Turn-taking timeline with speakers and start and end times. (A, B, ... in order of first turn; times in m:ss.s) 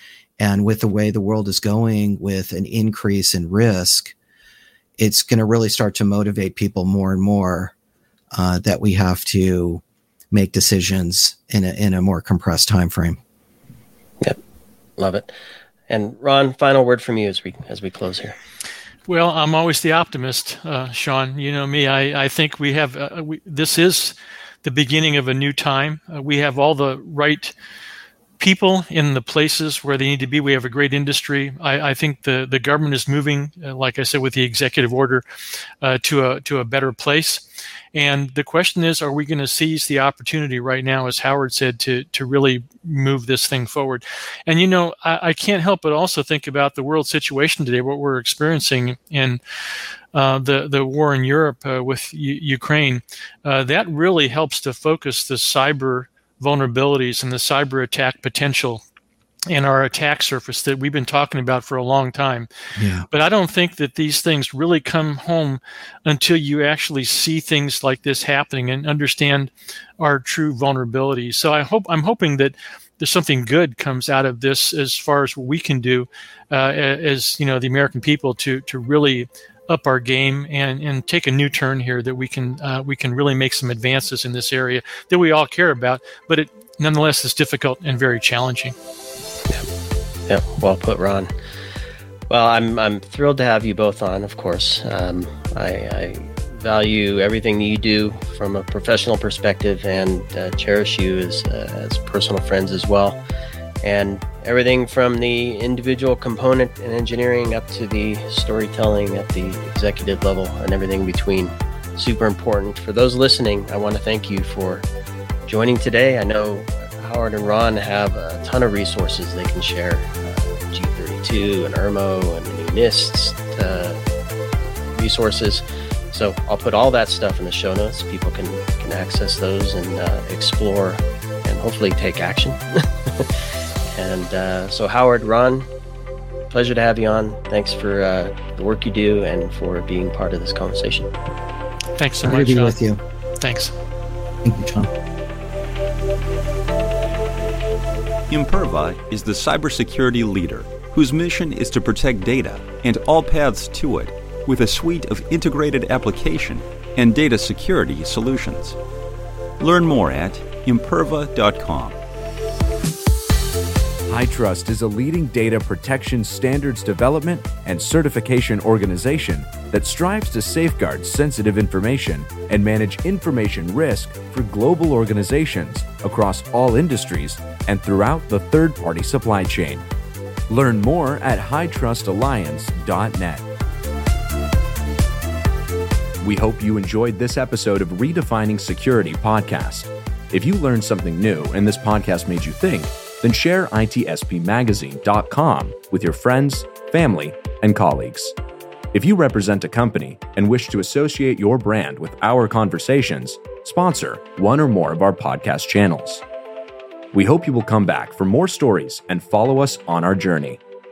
0:00.4-0:04.1 A
0:05.0-0:07.7 A
0:08.3-0:13.2 A
0:15.0-0:15.3 B
0:15.9-0:18.4 B
0:19.1-0:27.5 C
0:28.4-0:35.2 C
0:35.8-0:49.4 C
0:50.1-0:58.8 C
0:59.5-1:02.5 C
1:02.8-1:03.0 A
1:03.1-1:28.7 C
1:30.3-1:31.3 B
1:32.3-1:43.2 B
1:43.8-1:54.8 B
1:55.5-2:04.0 B
2:04.9-2:13.4 B
2:13.9-2:15.7 B
2:16.5-2:21.1 B
2:22.0-2:22.8 C
2:22.2-2:23.0 A
2:23.4-2:23.7 C
2:24.4-2:24.9 A
2:28.3-2:38.8 D
2:39.6-2:42.0 D
2:44.1-2:59.8 E
3:00.5-3:03.4 E
3:06.2-3:18.3 E
3:18.9-3:26.2 E
3:27.1-3:30.6 E